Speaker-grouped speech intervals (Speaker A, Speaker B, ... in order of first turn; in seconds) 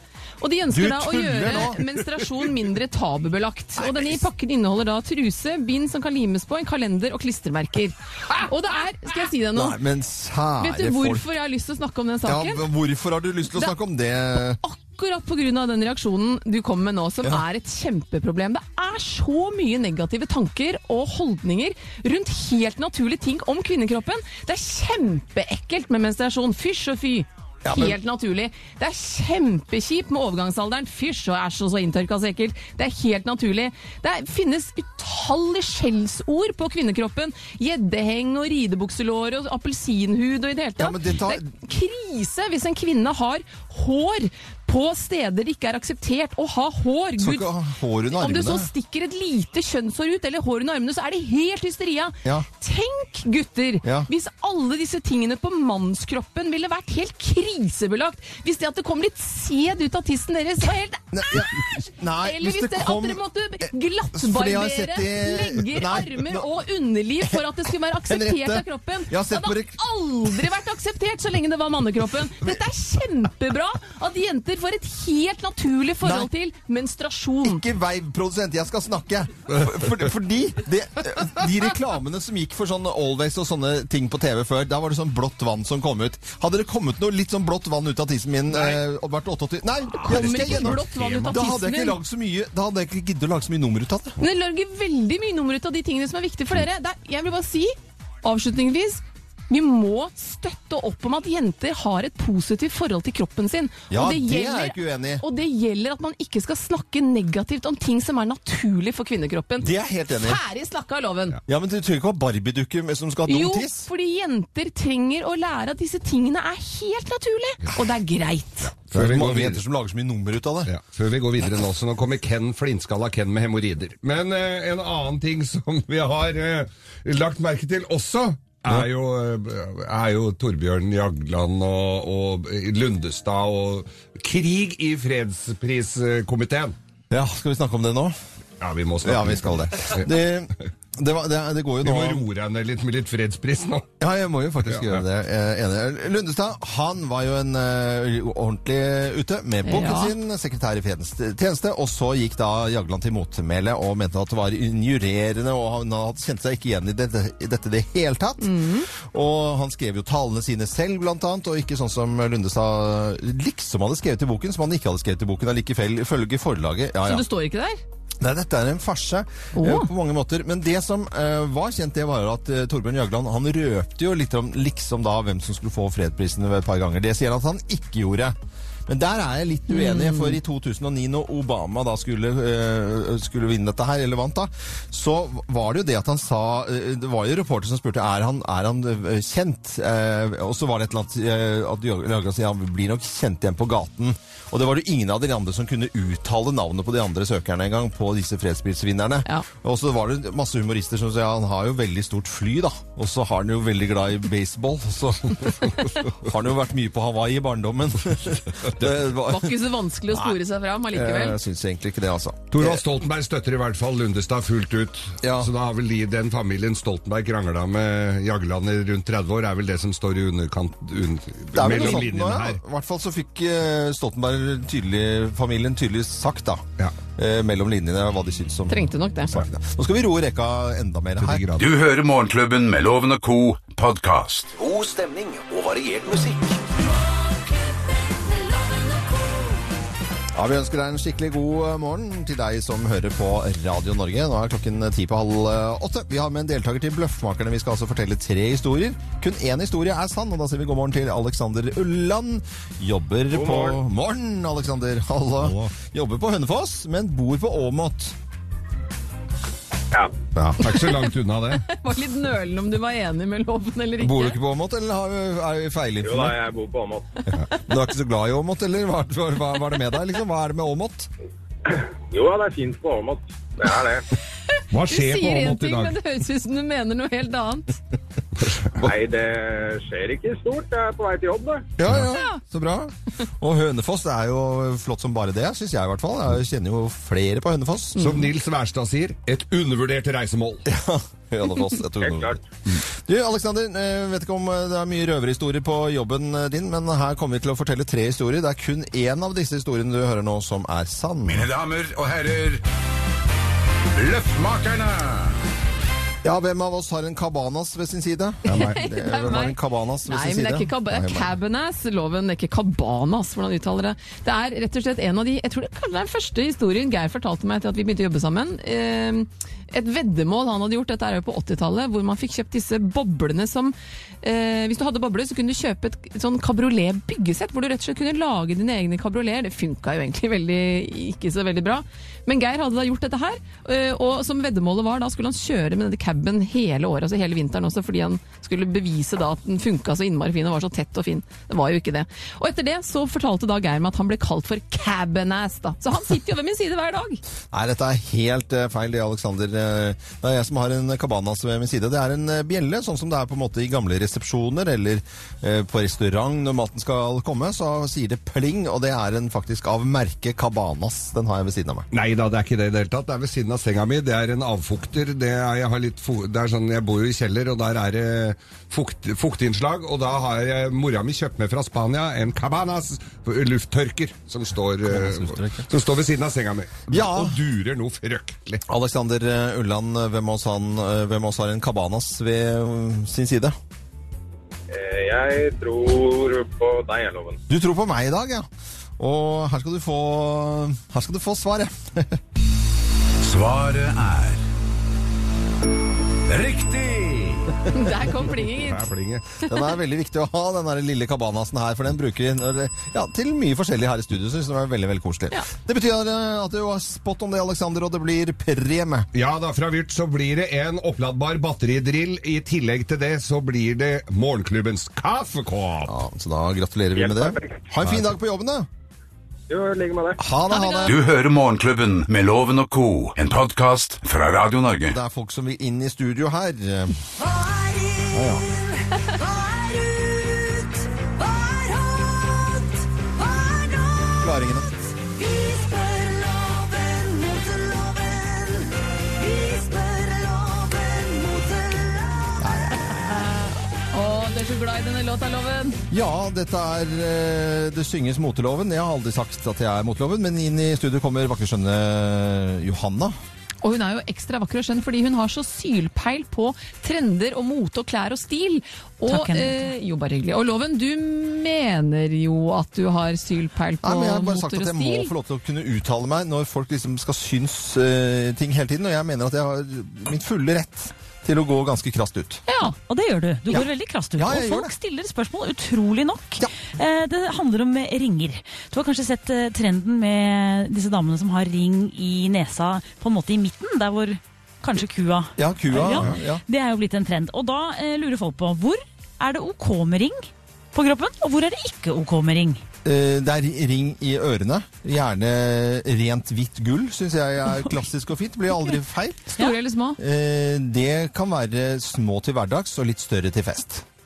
Speaker A: 0.4-9.8, 10.6-12.6, 14.6-47.5, 48.1-77.6, 90.0-92.0, 94.2-111.4, 113.3-118.7, 149.6-150.1, 158.4-158.9, 167.0-167.8, 169.6-169.9, 179.7-180.4, 209.2-211.4, 228.7-229.3, 260.6-261.0, 261.5-264.4, 274.6-277.7, 282.1-282.4, 288.0-288.3, 308.4-347.2, 397.7-398.9, 420.5-420.9, 443.1-445.8, 453.6-465.1, 472.5-472.7, 499.4-500.0
Speaker B: 0.7-2.0, 3.8-4.2, 9.5-11.2, 12.2-14.6, 27.6-27.9, 40.8-41.4, 47.2-48.7, 53.8-54.1, 61.1-63.2, 64.1-66.5, 68.0-69.8, 76.0-76.3, 77.4-94.2, 103.9-105.2, 109.6-110.4, 111.5-113.9, 118.9-120.7, 137.1-138.2, 139.0-142.2, 144.0-167.2, 168.2-178.3, 178.9-209.6, 210.1-210.4, 210.9-212.8, 215.2-215.5, 221.5-226.6, 227.2-231.4, 240.3-258.1, 264.0-266.4, 267.5-271.1, 281.8-288.1, 290.6-301.5, 306.2-311.3, 347.5-361.9, 374.9-375.7, 376.9-377.4, 378.7-383.5, 387.5-388.5, 389.0-392.2, 399.4-409.1, 415.8-418.7, 420.2-421.0, 424.9-427.0, 428.1-428.5, 434.2-434.8, 442.4-443.1, 445.9-453.2, 463.8-472.4, 473.5-474.7, 485.4-486.4, 492.8-499.3, 500.0-503.8
Speaker C: 88.5-88.8, 90.0-91.3, 118.6-119.6, 120.7-136.8, 138.6-140.1, 141.8-143.9, 144.7-145.0, 212.5-222.6, 231.2-231.7, 255.4-255.7, 260.3-261.6, 274.7-276.0, 278.4-278.8, 287.9-290.6, 308.5-308.7, 361.9-378.6, 398.5-399.2, 409.1-415.9, 485.9-486.1
Speaker D: 231.6-234.5, 301.3-302.6, 303.9-305.3, 393.2-394.4, 396.3-397.5, 420.9-425.0
Speaker E: 234.5-236.6
Speaker F: 238.3-239.3, 427.2-442.4
Speaker G: 253.3-253.8, 266.0-267.2, 271.7-274.0, 278.8-281.7, 292.0-292.4, 384.7-387.4, 416.9-417.6, 419.5-420.2
Speaker H: 459.1-459.7, 472.6-492.6